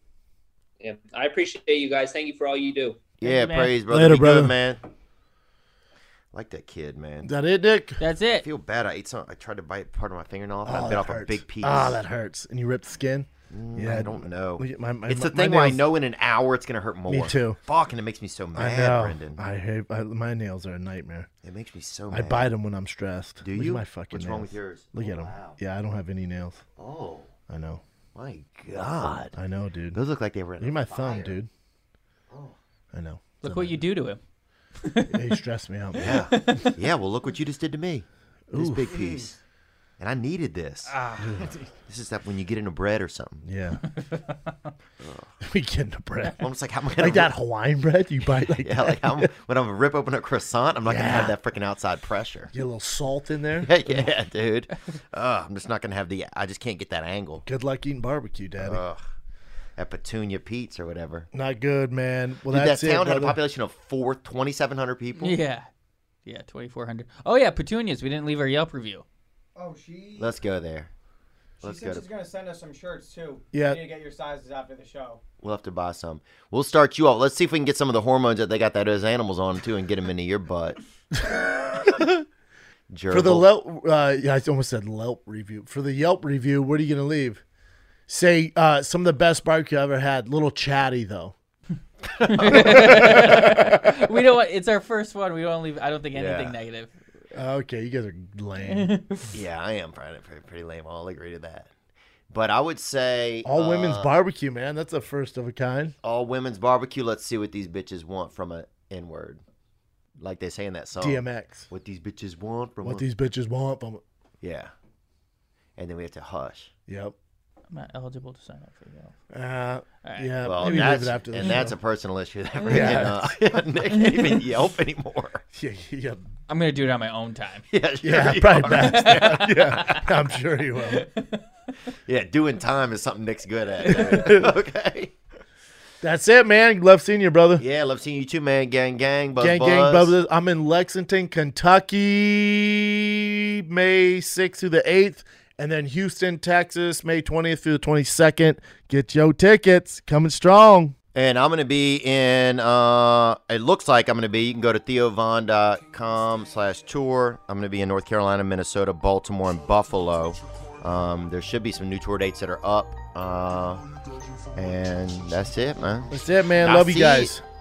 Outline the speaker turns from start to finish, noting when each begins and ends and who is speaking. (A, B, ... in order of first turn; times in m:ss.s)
0:00.8-0:03.0 A
0:03.2-0:04.8 B
0:03.2-0:03.7 C
0:03.9-0:04.5 D
0:06.3-0:07.3 B
0:07.2-0:08.0 D
0:08.0-0:08.5 C
0:08.4-0:12.0 B
0:10.6-0:15.8 D
0:13.5-0:19.4 B
0:17.1-0:17.6 D
0:18.6-0:21.3 D
0:21.4-0:22.5 B
0:22.1-0:26.6 D
0:23.4-0:25.6 B
0:26.8-0:27.3 B
0:27.5-0:27.8 D
0:28.2-0:29.4 B
0:29.4-0:30.0 D
0:29.9-0:31.4 B
0:30.6-0:31.5 D
0:32.3-0:32.6 B
0:32.9-0:33.8 D
0:33.4-0:34.2 C
0:34.8-0:35.2 C
0:35.1-0:36.2 D
0:36.0-0:39.4 B
0:36.4-0:36.7 C
0:38.5-0:39.2 D
0:40.0-0:40.9 B
0:40.9-0:41.4 C
0:41.2-0:41.6 D
0:41.9-0:43.5 B
0:43.4-0:43.8 D
0:45.0-0:45.3 B
0:45.4-0:46.4 D
0:46.4-0:47.3 B
0:47.0-0:49.3 D
0:48.6-0:52.5 B
0:50.9-0:51.4 D
0:52.5-0:54.0 D
0:53.6-0:57.4 B
0:57.5-0:58.8 D
0:58.6-0:59.0 B
0:59.8-1:01.3 B
1:01.3-1:03.4 D
1:02.5-1:05.4 B
1:05.2-1:05.7 C
1:06.3-1:09.0 C
1:09.6-1:10.4 E
1:10.2-1:10.9 B
1:11.6-1:12.1 B
1:11.6-1:15.2 E
1:13.5-1:13.8 D
1:15.4-1:20.8 B
1:21.1-1:22.2 D
1:22.9-1:23.5 B
1:23.1-1:27.4 D
1:28.1-1:31.3 D
1:32.2-1:33.5 B
1:32.3-1:36.9 C
1:32.5-1:33.6 D
1:36.1-1:36.6 B
1:37.3-1:39.0 D
1:38.7-1:39.2 C
1:39.3-1:41.7 B
1:42.3-1:44.1 B
1:43.4-1:46.0 D
1:46.0-1:49.4 B
1:50.2-1:53.1 B
1:51.0-1:51.7 D
1:52.8-1:54.0 D
1:54.4-1:54.7 B
1:55.8-1:56.7 B
1:56.9-1:57.2 D
1:57.7-1:59.1 C
1:59.3-2:01.8 D
2:00.0-2:00.8 C
2:00.4-2:05.4 B
2:02.7-2:03.0 C
2:02.7-2:03.2 D
2:04.1-2:04.4 C
2:05.5-2:06.2 D
2:06.5-2:07.7 C
2:07.7-2:09.5 B
2:08.0-2:11.1 D
2:08.7-2:09.8 C
2:10.9-2:11.2 C
2:12.1-2:15.1 B
2:13.9-2:14.5 D
2:16.0-2:17.6 D
2:17.6-2:20.1 B
2:19.4-2:31.0 D
2:31.2-2:43.8 B
2:44.6-2:47.3 B
2:46.1-2:47.4 D